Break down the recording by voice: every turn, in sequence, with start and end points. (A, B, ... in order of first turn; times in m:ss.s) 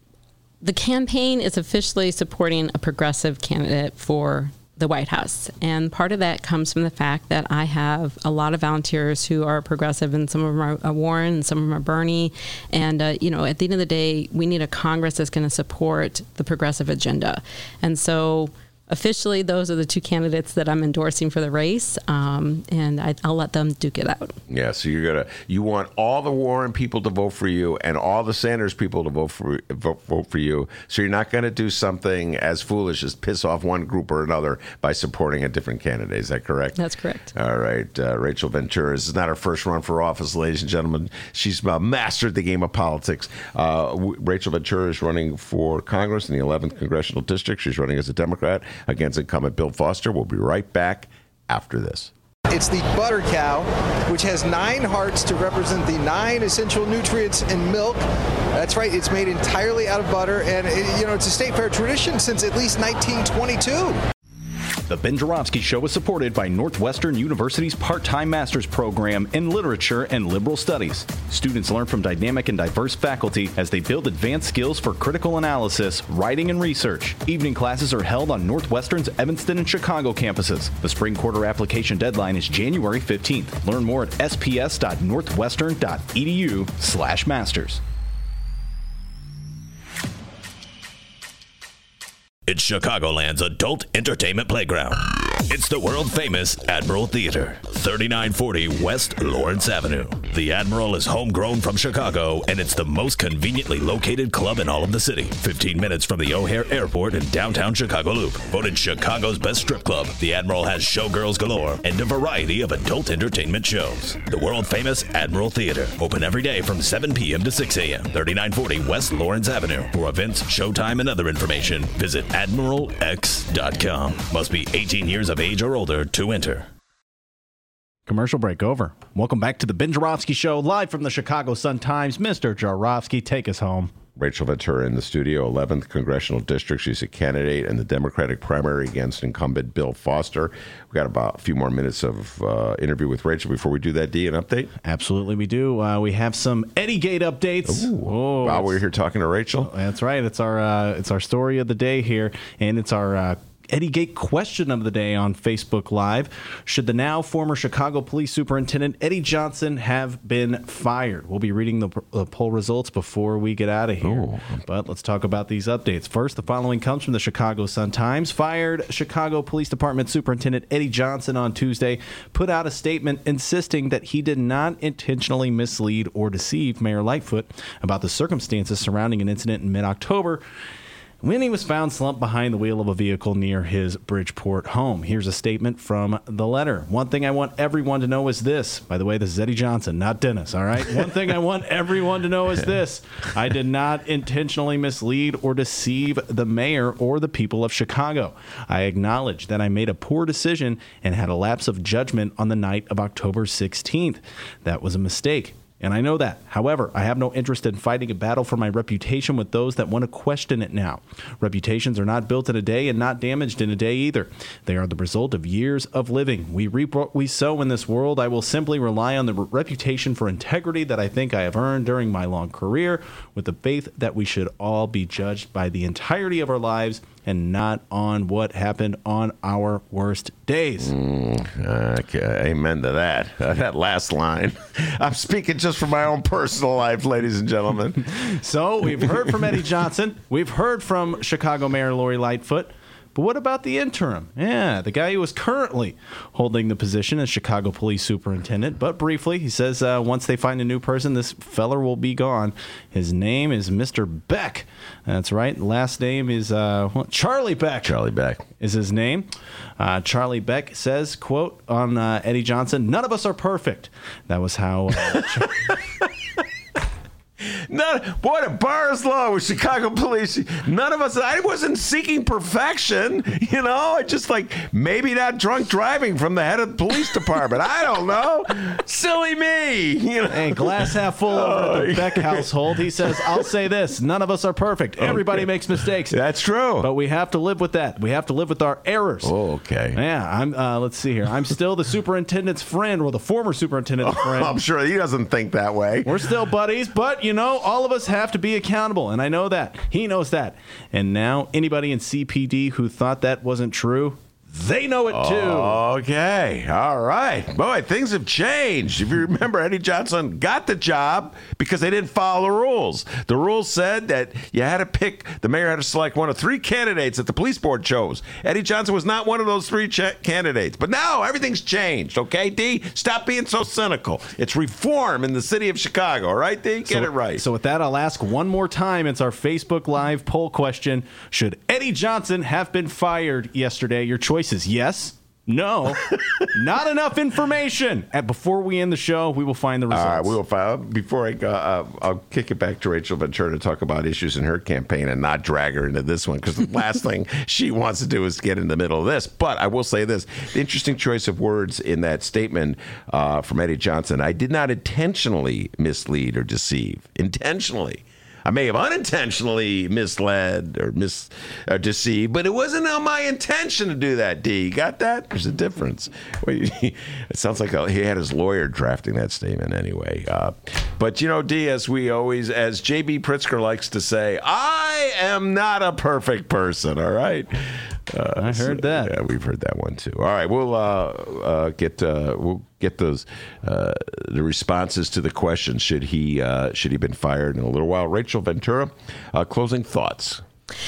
0:00.6-0:24.4 A
0:24.5-0:36.8 B
0:36.8-0:37.3 A
0:37.3-0:52.1 B
0:52.5-0:58.0 C
0:58.5-1:04.0 C
1:04.9-1:27.8 D
1:32.5-2:06.7 E
2:08.1-2:13.9 D
2:14.2-2:24.7 B
2:24.8-2:28.8 D
2:27.6-2:29.7 B
2:29.6-3:00.4 D
2:44.0-2:44.6 B
3:01.2-3:50.9 D
3:50.8-3:58.1 B
3:58.2-4:17.9 D
4:17.8-4:18.4 B
4:18.6-4:25.5 D
4:25.1-4:26.1 B
4:27.4-4:43.4 B
4:40.3-4:46.2 D
4:45.0-4:46.9 B
4:46.8-4:49.3 D
4:49.2-4:50.0 B
4:49.9-4:54.5 D
4:54.0-4:56.4 B
4:56.0-5:05.8 D
5:05.1-5:27.4 B
5:26.9-5:40.4 D
5:39.9-6:30.4 B
6:18.4-6:19.1 D